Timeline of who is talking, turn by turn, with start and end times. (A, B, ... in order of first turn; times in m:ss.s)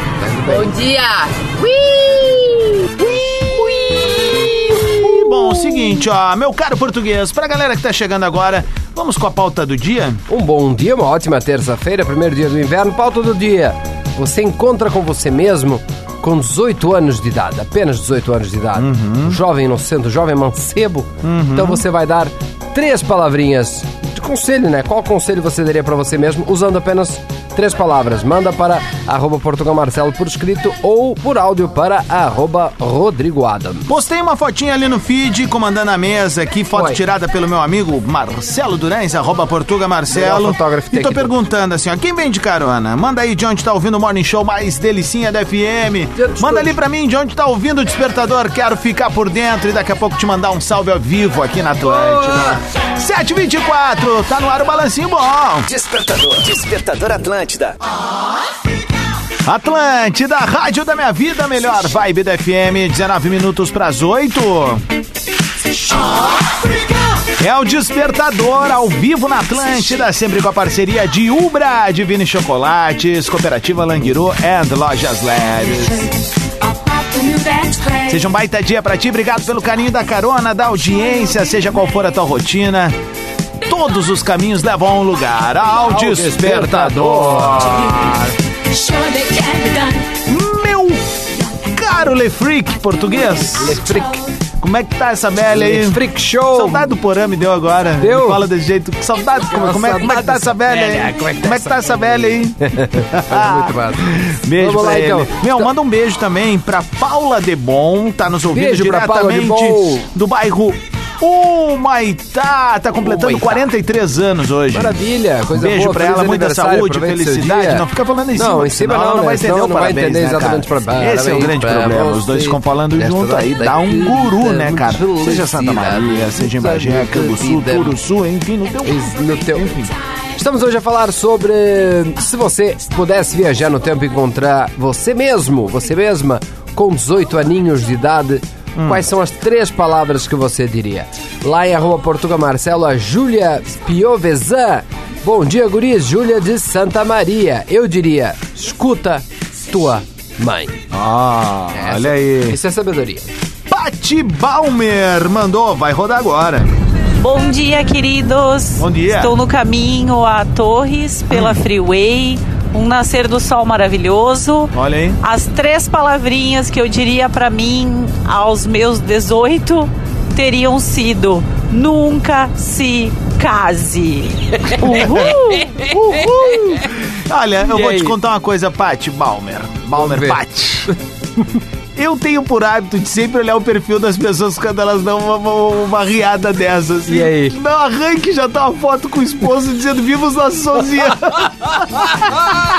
0:00.2-0:00.7 A
0:00.5-0:02.9 B
0:03.0-0:10.2 C
0:10.3-0:33.9 A
0:18.8-0:19.4 C
0:21.2-0:21.8 C
0:33.9-0:55.7 C
0:36.8-0:37.0 A
0:40.1-0:41.4 A
0:46.2-0:46.8 A
0:51.8-0:52.6 A
0:55.7-0:57.8 D
0:59.4-1:04.8 C
1:07.4-1:16.1 C
1:18.1-1:23.0 C
1:23.6-1:28.3 C
1:25.8-1:28.1 A
1:30.2-1:33.9 C
1:33.6-1:34.2 A
1:34.6-1:55.0 C
1:35.5-1:36.9 A
1:38.0-1:38.4 A
1:39.5-1:45.7 A
1:48.5-1:50.1 A
1:53.0-1:53.7 A
1:54.7-2:08.0 A
1:55.5-2:09.9 C
2:08.8-2:09.7 A
2:10.4-2:30.8 A
2:18.8-2:19.0 C
2:30.9-2:32.6 C
2:31.7-2:33.3 A
2:33.7-2:36.7 C
2:37.2-2:55.8 E
2:38.8-2:39.4 C
2:41.3-2:41.6 C
2:44.7-2:45.2 C
2:54.8-3:00.9 C
2:55.8-2:56.8 A
2:57.7-2:58.2 A
3:00.0-3:00.4 A
3:02.0-3:12.4 C
3:07.1-3:07.6 A